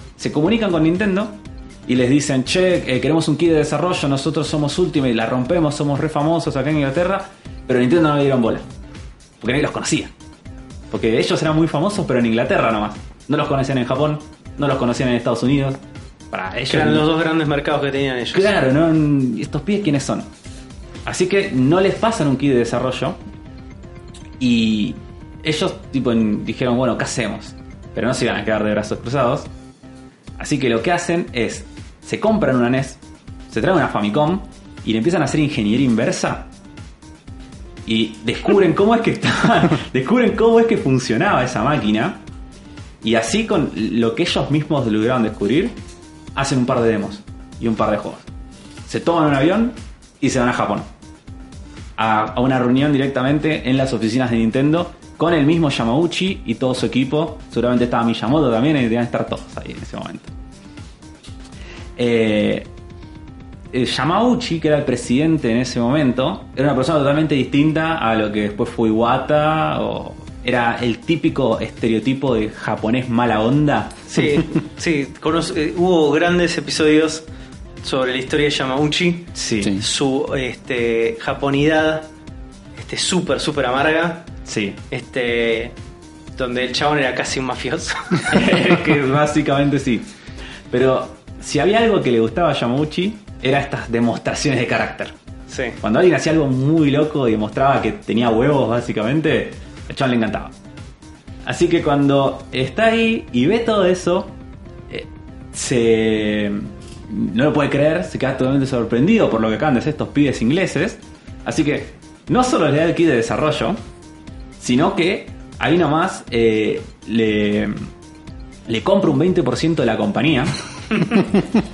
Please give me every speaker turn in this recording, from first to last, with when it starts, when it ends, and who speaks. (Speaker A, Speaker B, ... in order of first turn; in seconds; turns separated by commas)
Speaker A: 0.2-8.7, Speaker A: 9.4-10.1, Speaker A: 10.9-15.8, Speaker A: 16.3-17.1, Speaker B: 16.7-18.5, Speaker A: 18.3-20.3, Speaker A: 21.1-23.2, Speaker A: 24.4-29.5, Speaker A: 30.4-36.5, Speaker A: 37.9-42.2, Speaker A: 43.0-45.8, Speaker A: 46.4-48.2, Speaker A: 48.9-50.9, Speaker A: 52.0-60.3, Speaker A: 62.0-62.7, Speaker A: 63.7-74.4, Speaker B: 74.1-77.2, Speaker B: 77.8-82.1, Speaker A: 79.3-79.8, Speaker B: 82.8-84.3, Speaker A: 84.5-84.8, Speaker B: 84.9-85.8, Speaker B: 86.4-88.5, Speaker A: 88.3-90.1, Speaker A: 90.7-95.1, Speaker B: 95.5-95.8, Speaker A: 95.8-100.5, Speaker A: 101.4-104.3, Speaker A: 104.9-113.8, Speaker A: 114.6-117.9, Speaker A: 118.7-121.2